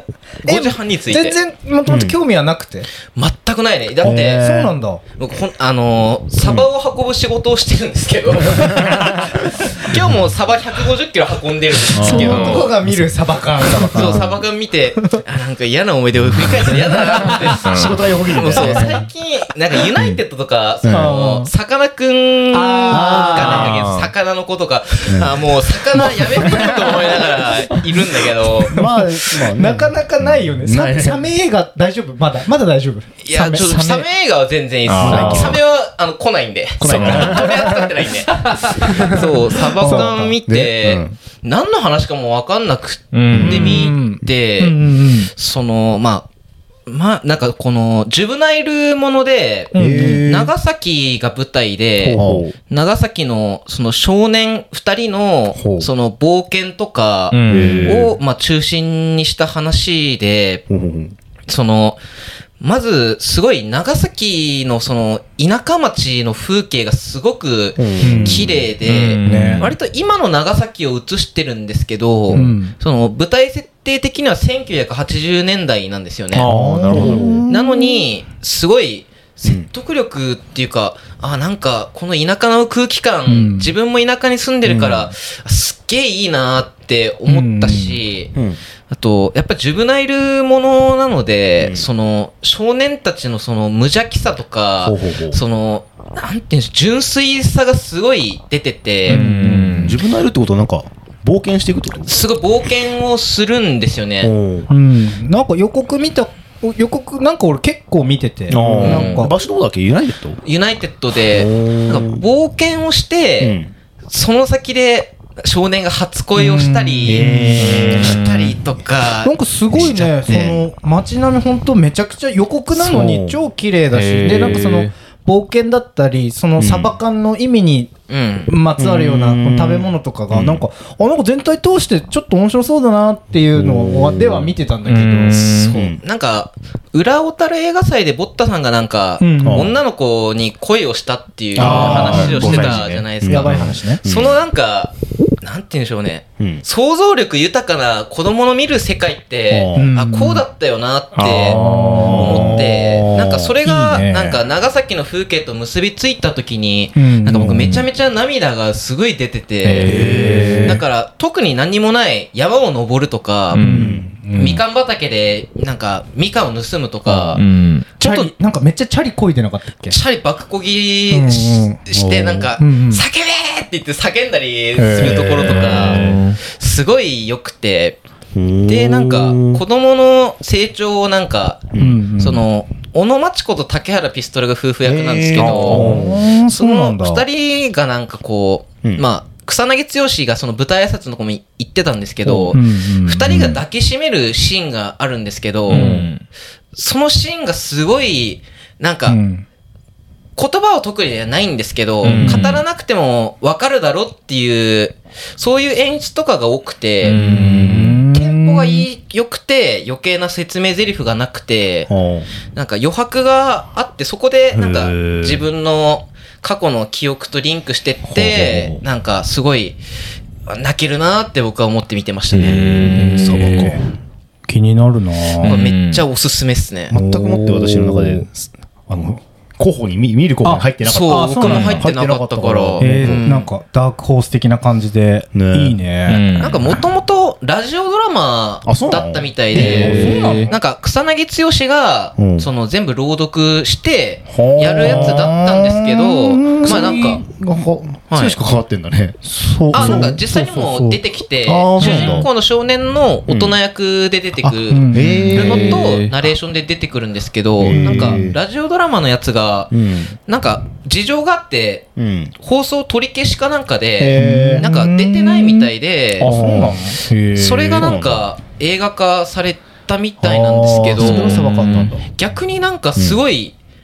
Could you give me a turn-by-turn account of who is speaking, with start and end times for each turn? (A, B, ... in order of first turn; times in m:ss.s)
0:00.4-0:01.4 A
0:00.4-0:02.9 B
0:01.9-0:02.2 C
0:03.2-0:04.5 A
0:04.0-0:04.8 C
0:04.0-0:05.0 B
0:05.2-0:12.8 A
0:06.4-0:06.7 C
0:08.5-0:09.2 C
0:11.9-0:14.4 C
0:12.0-0:14.3 B
0:12.0-0:12.6 D
0:13.8-0:28.8 A
0:17.2-0:19.0 C
0:17.2-0:17.6 B
0:17.6-0:18.0 D
0:18.5-0:19.0 B
0:20.8-0:21.1 C
0:20.9-0:21.5 B
0:22.5-0:23.7 B
0:22.9-0:23.8 C
0:23.4-0:24.1 D
0:25.1-0:26.9 C
0:26.2-0:27.0 B
0:28.7-0:31.2 C
0:28.7-0:34.0 B
0:33.2-0:46.3 A
0:33.6-0:33.9 D
0:34.8-0:35.6 D
0:35.0-0:35.6 C
0:36.8-0:38.0 C
0:36.9-0:37.4 D
0:38.3-0:39.2 B
0:38.8-0:41.2 C
0:39.8-0:40.3 B
0:43.1-0:43.9 D
0:43.3-0:43.6 C
0:43.4-0:45.3 B
0:46.9-1:00.6 A
0:49.7-0:50.3 B
0:49.8-0:50.5 C
0:52.1-0:52.5 C
0:52.1-0:52.4 B
0:55.6-0:55.9 C
0:57.3-0:58.1 D
0:57.5-0:58.2 C
1:00.7-1:01.2 C
1:01.5-1:02.0 A
1:02.6-1:16.5 A
1:07.8-1:08.7 C
1:08.0-1:08.4 B
1:08.8-1:09.7 D
1:09.2-1:09.7 B
1:12.3-1:12.6 C
1:12.3-1:12.7 B
1:16.3-1:17.4 D
1:16.4-1:18.0 B
1:16.9-1:17.4 C
1:17.5-1:28.3 A
1:23.3-1:23.7 B
1:24.6-1:25.1 C
1:27.3-1:28.0 B
1:28.4-1:28.6 C
1:28.9-1:39.2 A
1:31.6-1:31.9 C
1:34.8-1:35.4 C
1:39.1-1:40.0 D
1:39.1-1:40.0 B
1:39.8-1:42.2 C
1:42.1-1:44.3 A
1:44.2-1:44.7 C
1:44.7-1:49.3 B
1:48.5-1:50.4 C
1:48.5-1:49.0 D
1:48.8-1:49.3 A
1:50.4-2:00.6 A
1:51.3-1:52.2 C
1:53.4-1:53.7 C
1:56.4-1:58.1 B
1:57.1-1:58.2 C
1:57.6-1:58.5 D
1:59.2-2:07.9 B
1:59.7-2:00.5 C
2:02.7-2:03.4 C
2:03.9-2:04.9 D
2:06.6-2:07.0 C
2:08.1-2:08.5 A
2:08.5-2:15.5 B
2:08.8-2:10.6 C
2:13.5-2:14.5 C
2:14.9-2:15.8 D
2:15.5-2:43.6 A
2:15.7-2:16.0 C
2:19.2-2:19.6 B
2:19.4-2:19.8 C
2:21.6-2:24.4 C
2:21.6-2:24.0 B
2:21.6-2:22.7 D
2:23.5-2:23.8 D
2:29.5-2:29.9 C
2:29.8-2:30.4 B
2:31.2-2:32.6 D
2:31.5-2:33.1 B
2:32.0-2:33.6 C
2:33.6-2:34.4 B
2:37.0-2:37.6 B
2:37.4-2:37.8 C
2:39.6-2:40.8 D
2:39.8-2:40.8 C
2:43.5-2:43.9 D
2:43.6-2:44.6 B
2:43.6-2:44.1 C
2:44.4-2:47.4 A
2:47.1-2:47.4 C
2:47.3-2:47.9 D
2:48.0-2:48.3 A
2:48.0-2:50.0 B
2:49.9-2:58.0 A
2:51.1-2:51.8 B
2:51.9-2:52.5 C
2:52.6-2:53.0 B
2:54.8-2:56.4 D
2:55.7-2:56.0 C
2:58.4-2:59.6 C
2:58.7-3:16.0 A
3:01.7-3:02.0 C
3:01.8-3:02.4 B
3:04.8-3:06.1 C
3:05.4-3:06.0 D
3:05.7-3:07.2 B
3:12.5-3:13.6 B
3:15.7-3:16.1 B
3:15.7-3:16.2 D
3:16.7-3:19.2 A
3:19.1-3:19.4 B
3:20.4-3:27.2 A
3:22.0-3:22.6 D
3:22.0-3:22.5 B
3:27.0-3:28.0 D
3:27.1-3:28.9 B
3:27.4-3:27.7 C
3:28.1-3:31.9 A
3:31.9-3:32.3 C
3:32.5-3:39.8 A
3:34.5-3:35.4 C
3:38.1-3:38.8 C
3:40.5-3:43.6 A
3:42.3-3:43.9 C
3:42.4-3:43.8 D
3:43.4-3:43.8 B
3:44.5-3:45.6 B
3:45.4-3:46.0 D
3:45.4-3:47.0 A
3:46.9-3:53.3 C
3:46.9-3:48.3 B
3:50.4-3:51.8 B
3:50.8-3:53.5 A
3:51.4-3:51.8 D
3:52.8-3:56.3 B
3:55.3-3:55.8 C
3:56.1-3:56.8 D
3:56.4-4:07.2 A
3:58.6-4:00.4 C
3:59.6-4:00.5 D
3:59.6-4:00.5 B
4:02.2-4:02.5 C
4:04.3-4:05.3 C
4:04.6-4:06.9 B
4:06.6-4:09.2 C
4:08.1-4:08.4 A
4:09.2-4:11.0 B
4:09.7-4:10.2 C
4:09.7-4:19.8 A
4:11.4-4:12.3 C
4:11.8-4:12.2 B
4:13.3-4:13.6 C
4:14.4-4:16.0 C
4:14.7-4:15.3 B
4:15.3-4:16.1 D
4:17.6-4:18.4 C
4:17.6-4:18.3 B
4:19.7-4:20.1 C
4:20.3-4:21.9 A
4:22.0-4:22.3 C
4:22.4-4:26.7 A
4:24.0-4:27.9 B
4:24.2-4:24.5 C
4:26.2-4:26.8 C
4:27.3-4:33.6 A
4:27.7-4:28.2 C
4:30.2-4:32.1 C
4:31.0-4:31.9 D
4:31.1-4:31.9 B
4:33.0-4:33.2 C